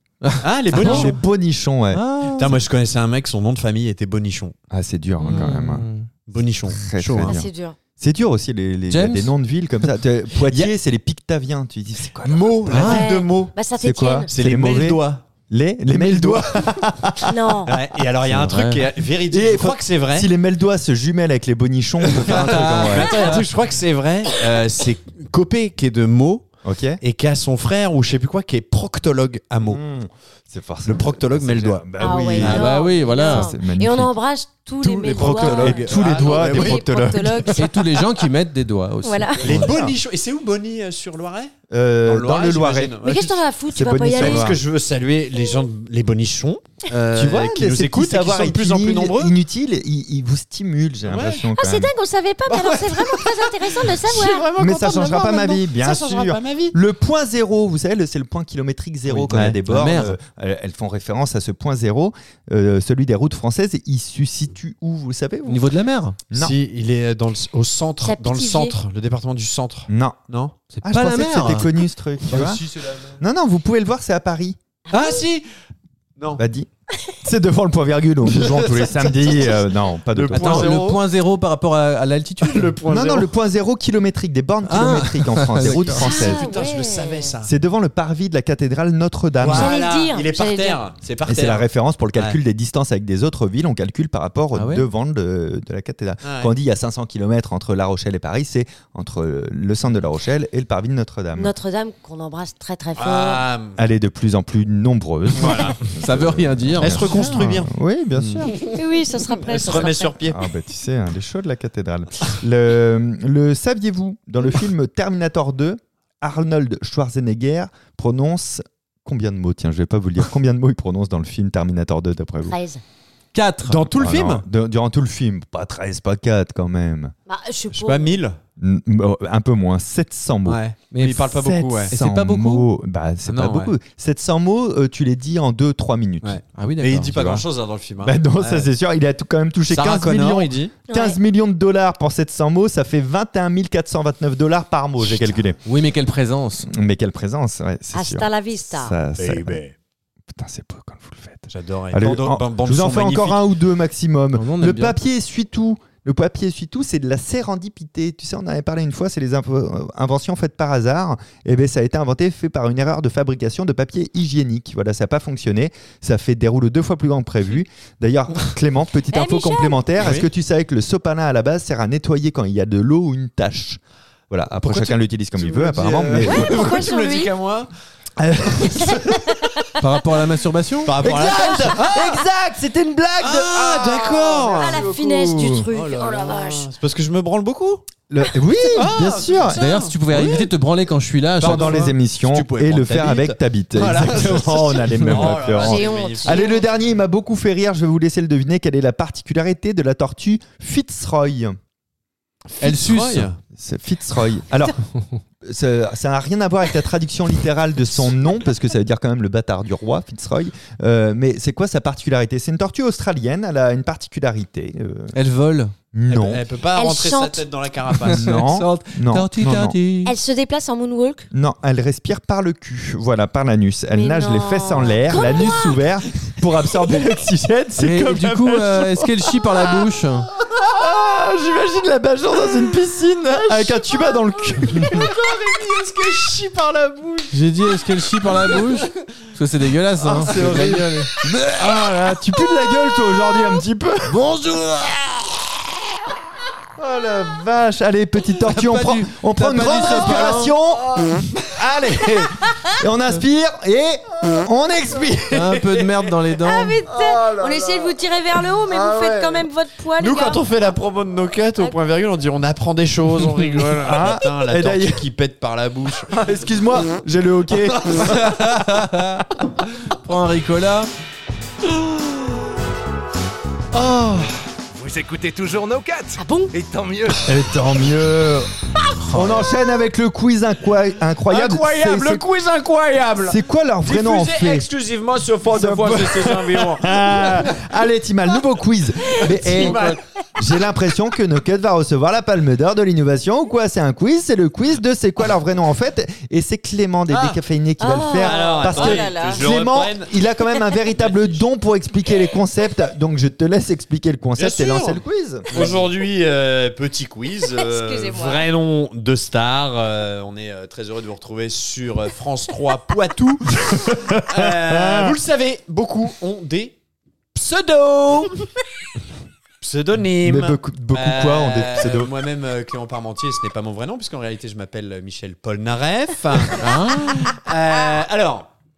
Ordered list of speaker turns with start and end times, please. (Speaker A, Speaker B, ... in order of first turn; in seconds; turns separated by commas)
Speaker A: 0.2-1.1, Speaker B: 0.4-1.2, Speaker C: 0.8-2.5, Speaker A: 1.9-2.5, Speaker B: 2.3-4.5, Speaker C: 4.7-5.9, Speaker A: 5.2-6.1, Speaker B: 6.3-7.4, Speaker C: 6.7-12.9, Speaker D: 7.2-7.8, Speaker A: 8.9-9.3, Speaker B: 12.2-13.5, Speaker A: 12.7-13.1, Speaker D: 12.8-14.3, Speaker C: 13.8-18.0, Speaker B: 14.3-15.2, Speaker B: 15.9-16.5, Speaker D: 17.2-17.7, Speaker B: 17.7-20.3, Speaker A: 18.3-18.9, Speaker C: 19.3-23.3, Speaker B: 22.0-26.5, Speaker A: 22.3-23.4, Speaker D: 23.0-23.4, Speaker C: 26.6-27.0, Speaker B: 27.0-29.8, Speaker C: 29.6-34.1, Speaker B: 30.9-32.7, Speaker D: 32.0-37.7, Speaker A: 32.4-33.5, Speaker C: 34.9-37.6, Speaker B: 35.0-36.8, Speaker A: 37.6-39.8, Speaker D: 39.0-39.5, Speaker B: 39.4-41.5, Speaker C: 39.5-39.9, Speaker C: 41.7-43.0, Speaker B: 42.0-43.4, Speaker D: 43.0-44.5, Speaker C: 43.7-44.6, Speaker B: 44.1-49.4, Speaker C: 47.1-51.9, Speaker B: 51.1-51.5, Speaker D: 51.6-54.5, Speaker B: 52.5-56.8, Speaker C: 54.5-65.6, Speaker A: 59.1-60.2, Speaker B: 59.3-59.6, Speaker A: 65.5-66.2, Speaker C: 66.3-66.6, Speaker B: 66.3-70.5, Speaker D: 68.0-68.8, Speaker C: 69.9-70.2, Speaker A: 70.7-71.7, Speaker C: 70.8-72.6, Speaker A: 72.3-73.2, Speaker C: 73.2-74.6, Speaker D: 74.9-75.2, Speaker B: 74.9-75.5, Speaker C: 76.4-76.7, Speaker C: 77.2-80.8, Speaker B: 78.3-79.6, Speaker B: 80.1-81.0, Speaker A: 80.3-82.8, Speaker B: 82.4-83.3, Speaker C: 82.9-86.5, Speaker A: 84.7-86.0, Speaker B: 85.6-87.5, Speaker D: 86.0-87.3, Speaker C: 87.4-89.7, Speaker B: 89.4-92.4, Speaker D: 89.5-90.8, Speaker C: 91.3-101.5, Speaker A: 94.5-94.9, Speaker B: 96.2-96.5, Speaker D: 101.4-103.5, Speaker B: 103.0-103.8, Speaker C: 103.8-108.6, Speaker B: 105.4-105.8, Speaker A: 105.9-107.7, Speaker B: 106.8-107.7, Speaker A: 108.2-108.5, Speaker D: 108.7-110.2, Speaker B: 109.4-110.4, Speaker C: 110.2-122.6, Speaker D: 122.5-122.8, Speaker A: 123.3-123.8, Speaker B: 123.7-124.5, Speaker C: 123.9-127.1, Speaker D: 127.3-128.1, Speaker B: 127.7-128.4, Speaker C: 128.6-130.6, Speaker B: 130.5-131.9, Speaker A: 130.9-131.3, Speaker C: 131.3-136.4, Speaker A: 131.9-132.7, Speaker B: 133.3-133.7, Speaker B: 136.2-138.7, Speaker A: 136.6-137.2, Speaker C: 137.1-137.4, Speaker C: 138.0-145.6, Speaker B: 139.7-140.7, Speaker D: 140.9-141.2, Speaker B: 145.0-145.4, Speaker A: 145.7-146.7, Speaker C: 146.7-149.6, Speaker D: 147.9-149.0, Speaker B: 149.2-149.8, Speaker C: 150.3-176.8, Speaker B: 151.5-153.4, Speaker A: 154.3-155.0, Speaker D: 169.1-169.8, Speaker B: 170.0-170.3, Speaker B: 174.6-177.7, Speaker D: 176.2-177.3, Speaker C: 178.2-179.4, Speaker D: 178.7-179.7, Speaker A: 179.8-181.0, Speaker B: 180.8-182.2, Speaker C: 181.0-185.7, Speaker D: 181.2-181.9, Speaker B: 183.2-184.9, Speaker D: 184.5-186.7, Speaker B: 185.7-187.9, Speaker C: 188.1-189.6, Speaker B: 188.7-190.5, Speaker A: 189.5-191.9, Speaker B: 191.4-196.5, Speaker C: 191.4-201.6, Speaker A: 195.0-195.3, Speaker D: 195.6-196.7, Speaker B: 202.6-203.4, Speaker A: 202.6-203.3, Speaker C: 203.5-204.8, Speaker C: 205.4-215.2, Speaker A: 215.1-215.7, Speaker C: 215.9-216.4, Speaker B: 216.1-218.4, Speaker D: 216.7-217.4, Speaker A: 218.0-220.1, Speaker C: 218.1-219.8, Speaker D: 220.1-221.3, Speaker C: 221.3-235.3, Speaker D: 223.9-225.8, Speaker A: 227.8-230.3, Speaker B: 234.7-236.8, Speaker C: 236.4-237.4, Speaker A: 237.3-241.4, Speaker B: 238.2-238.9, Speaker C: 240.0-244.2, Speaker A: 244.1-245.2, Speaker C: 246.8-255.7, Speaker A: 248.5-250.5, Speaker B: 249.9-250.2, Speaker B: 250.9-251.5, Speaker A: 255.3-256.8, Speaker D: 256.4-260.4, Speaker C: 257.2-257.5, Speaker B: 257.2-257.7, Speaker C: 258.7-259.4, Speaker B: 260.0-266.2, Speaker C: 263.8-265.1, Speaker C: 266.1-268.5, Speaker B: 267.8-268.0, Speaker A: 268.1-269.2, Speaker A: 269.9-270.9, Speaker C: 273.7-274.3, Speaker E: 274.7-277.4, Speaker D: 276.2-276.5, Speaker C: 277.2-278.5, Speaker C: 279.1-282.2, Speaker B: 281.3-287.5, Speaker C: 283.2-284.7, Speaker C: 285.5-305.8, Speaker B: 289.1-290.0, Speaker B: 297.1-297.4, Speaker D: 297.8-299.4, Speaker B: 298.2-300.2, Speaker B: 300.9-301.4, Speaker B: 304.4-316.8, Speaker D: 307.5-308.5, Speaker C: 313.6-315.2, Speaker B: 317.4-318.5, Speaker B: 319.6-328.5, Speaker C: 320.2-322.1, Speaker A: 326.6-327.3